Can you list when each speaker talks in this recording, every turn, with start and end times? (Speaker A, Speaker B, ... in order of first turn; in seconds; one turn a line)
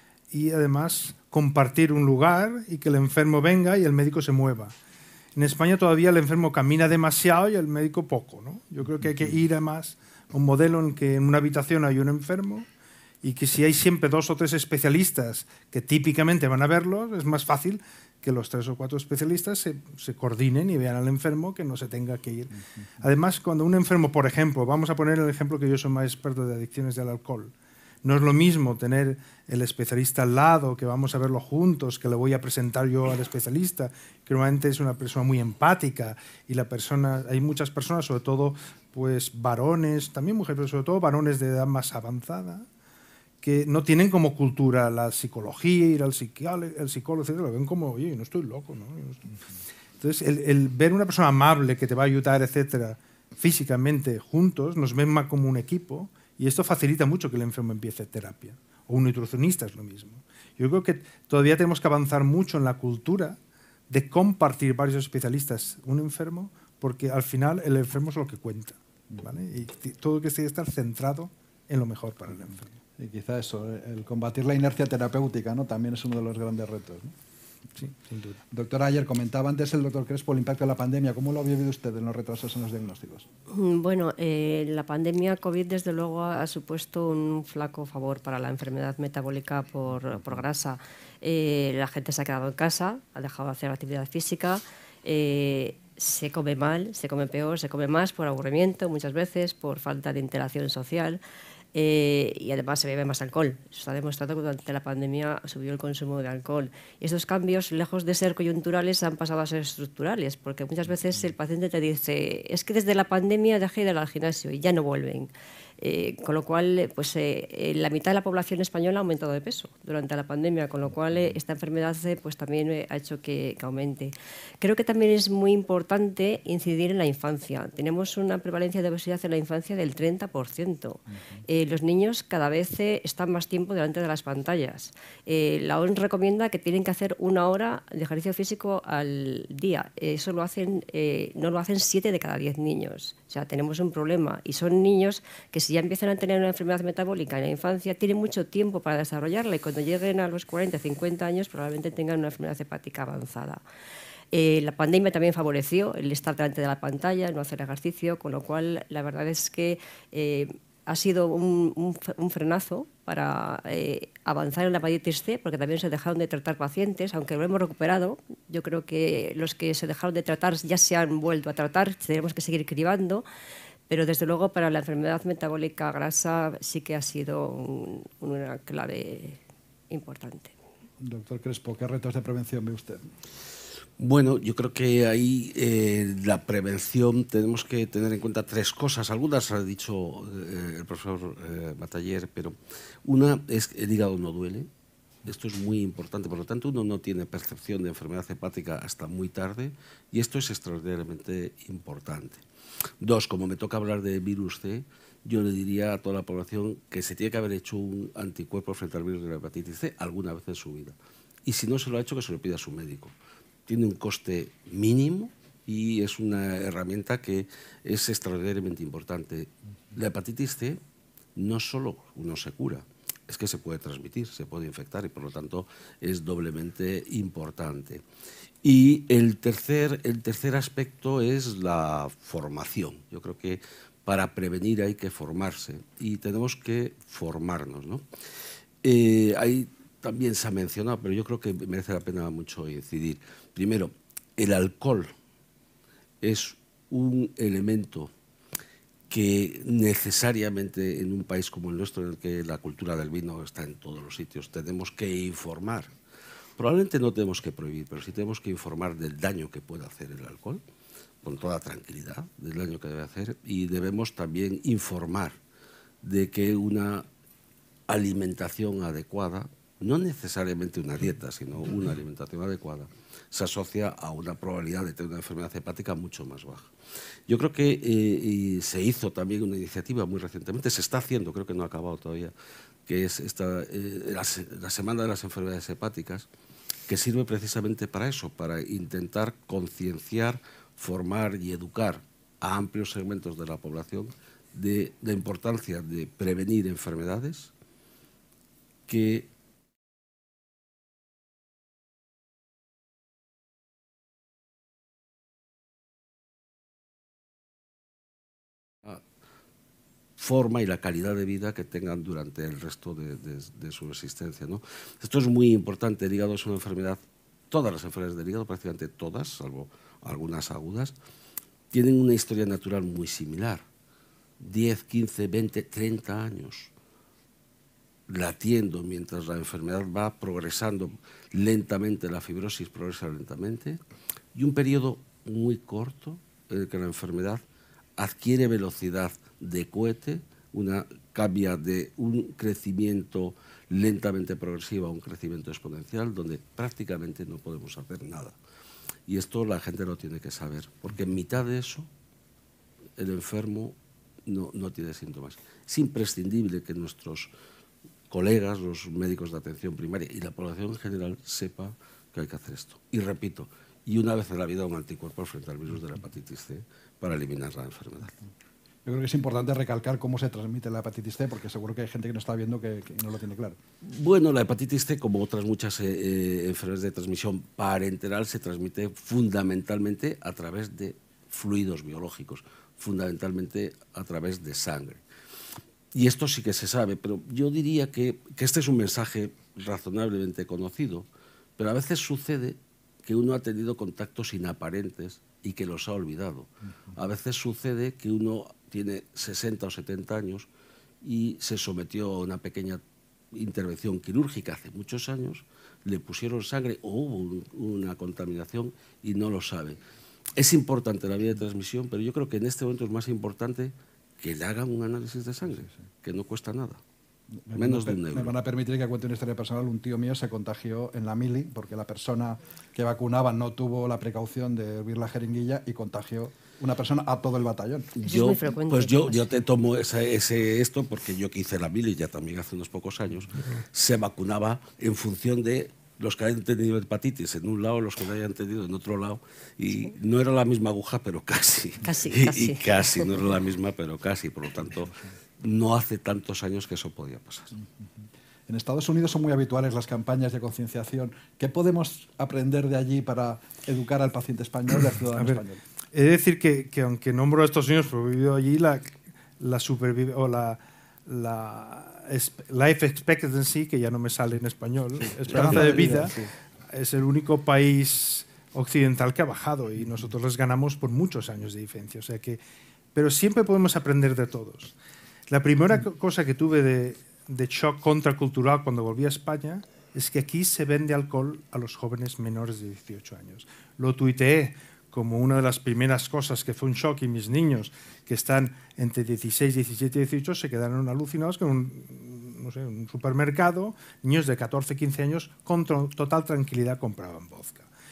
Speaker A: 0.3-4.8
Speaker A: 5.4-12.7
Speaker A: 13.2-42.7
Speaker A: 43.4-49.3
Speaker A: 50.0-63.4
Speaker A: 63.9-72.7
Speaker B: 73.0-77.1
Speaker A: 77.8-78.4
Speaker B: 78.5-83.3
Speaker C: 83.5-101.2
Speaker C: 101.7-153.6
Speaker C: 154.3-173.2
Speaker C: 173.9-180.5
Speaker B: 181.0-183.0
Speaker D: 184.0-194.7
Speaker D: 195.2-202.4
Speaker D: 203.0-213.1
Speaker D: 213.7-220.8
Speaker D: 221.4-228.0
Speaker D: 228.6-238.1
Speaker D: 238.8-245.1
Speaker D: 246.2-248.1
Speaker D: 249.1-255.9
Speaker D: 256.6-260.6
Speaker D: 261.2-265.4
Speaker D: 266.0-267.1
Speaker D: 267.9-276.7
Speaker D: 277.3-282.3
Speaker D: 282.9-286.3
Speaker D: 286.9-297.5
Speaker D: 298.9-299.3
Speaker D: 310.2-317.0
Speaker D: 317.5-320.9
Speaker D: 321.7-323.6
Speaker D: 324.4-326.7
Speaker D: 328.1-333.8
Speaker D: 334.4-337.4
Speaker D: 338.0-348.4
Speaker D: 349.1-351.9
Speaker D: 353.0-357.3
Speaker D: 358.1-368.2
Speaker B: 368.9-373.6
Speaker D: 373.8-385.0
Speaker D: 385.9-400.5
Speaker D: 401.0-402.8
Speaker D: 403.3-409.8
Speaker D: 410.4-416.8
Speaker B: 417.3-428.0
Speaker D: 417.5-418.4
Speaker C: 428.0-429.4
Speaker D: 428.1-447.5
Speaker C: 441.8-443.1
Speaker B: 448.5-455.6
Speaker A: 455.2-455.4
Speaker A: 455.9-466.2
Speaker B: 465.3-466.3
Speaker A: 466.7-472.4
Speaker A: 472.9-474.7
Speaker A: 475.3-497.7